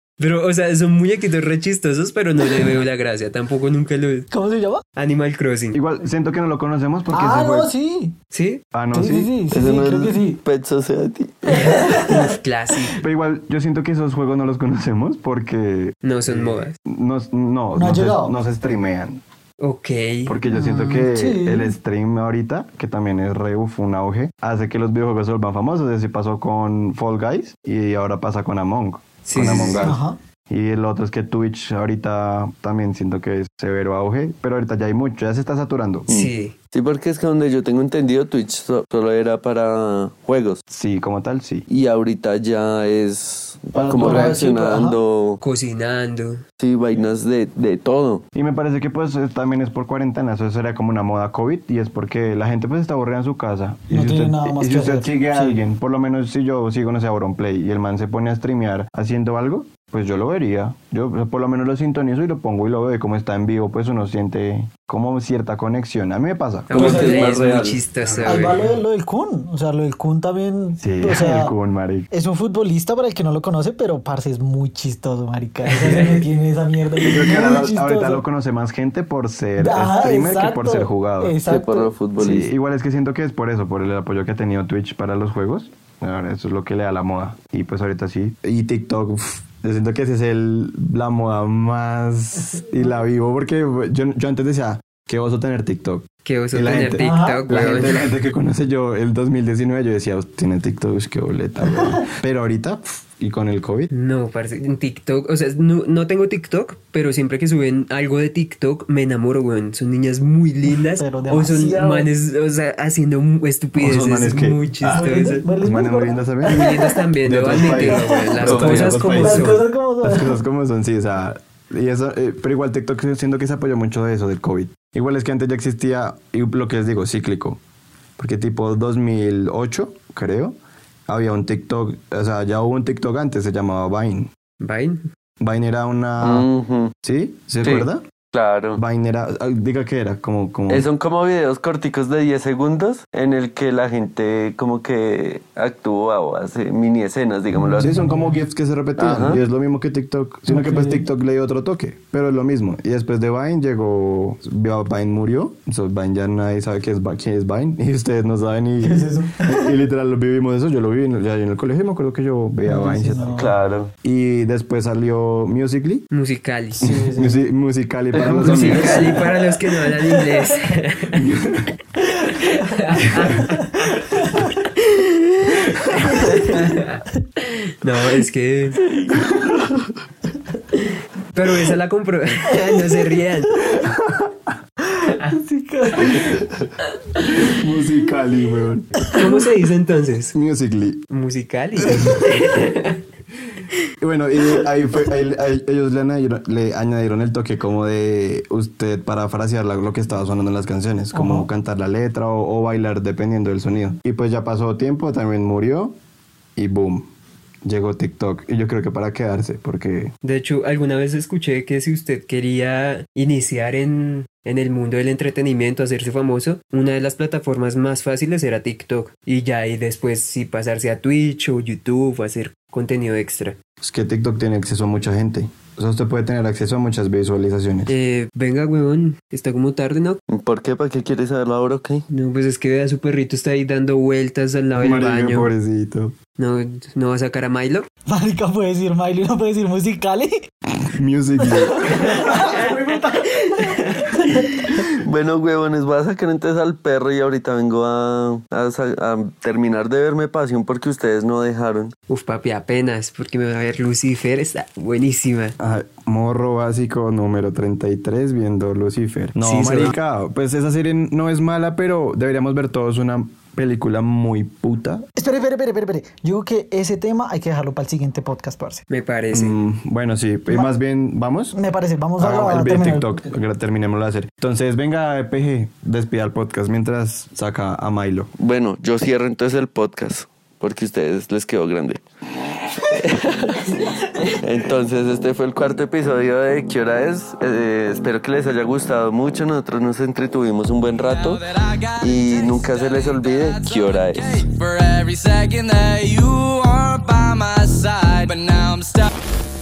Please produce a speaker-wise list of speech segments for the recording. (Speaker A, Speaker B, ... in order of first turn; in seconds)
Speaker A: 0.2-4.3, 5.0-5.8, 8.3-8.6, 11.5-13.0, 16.0-16.8, 19.6-20.3, 29.2-29.9, 36.1-36.5, 45.4-46.4, 66.7-68.6, 75.7-76.2, 96.2-98.0, 103.9-115.5, 116.4-119.6, 134.6-135.0, 166.1-166.8, 168.3-171.3, 172.3-178.8, 180.7-183.6, 189.1-190.3, 191.1-193.0, 210.2-223.6, 227.9-230.2, 232.1-235.5, 236.4-237.9, 242.0-244.4, 252.1-255.6, 259.4-259.9, 268.9-269.6
Speaker B: 4.3-4.8, 7.1-8.2, 8.9-10.4, 11.5-12.4, 17.8-18.3, 20.5-21.7, 29.8-30.2, 44.0-45.0, 53.9-55.6, 66.7-67.3, 68.2-71.5, 72.1-78.2, 79.6-81.9, 97.0-98.0, 110.8-112.1, 114.9-116.9, 117.6-120.4, 147.6-148.4, 150.5-151.1, 158.8-159.7, 162.7-163.5, 166.8-167.4, 168.2-170.5, 175.9-176.4, 184.8-186.4, 201.1-201.5, 238.1-240.5, 241.4-244.4, 265.2-268.9, 271.5-273.3
Speaker C: 5.7-7.7, 8.7-9.3, 13.0-19.2, 20.3-36.1, 40.7-41.7, 43.7-44.4, 48.4-66.7, 68.0-68.4, 70.8-72.1, 77.0-81.4, 82.2-103.9, 113.8-116.7, 117.2-127.6, 128.2-130.6, 131.1-134.3, 135.4-136.5, 137.0-138.0, 138.8-140.9, 147.8-163.5, 164.0-166.1, 166.8-169.3, 171.1-171.7, 183.8-184.3, 186.0-186.3, 187.2-189.1, 190.3-191.1, 191.8-192.7, 194.0-205.9, 206.6-207.1, 207.7-210.1, 223.8-227.9, 234.8-236.2, 240.8-242.5, 255.6-265.1, 269.3-271.6, 272.2-278.3
Speaker D: 9.5-11.8, 36.1-40.6, 41.7-45.4, 46.6-48.2, 66.7-67.8, 81.5-82.5, 118.4-119.0, 136.2-136.9, 137.6-138.8, 140.7-147.9, 149.0-149.4, 163.3-163.9, 179.1-179.9, 230.3-232.1, 244.9-251.9, 278.4-291.4, 292.0-294.4
Speaker E: 291.0-299.1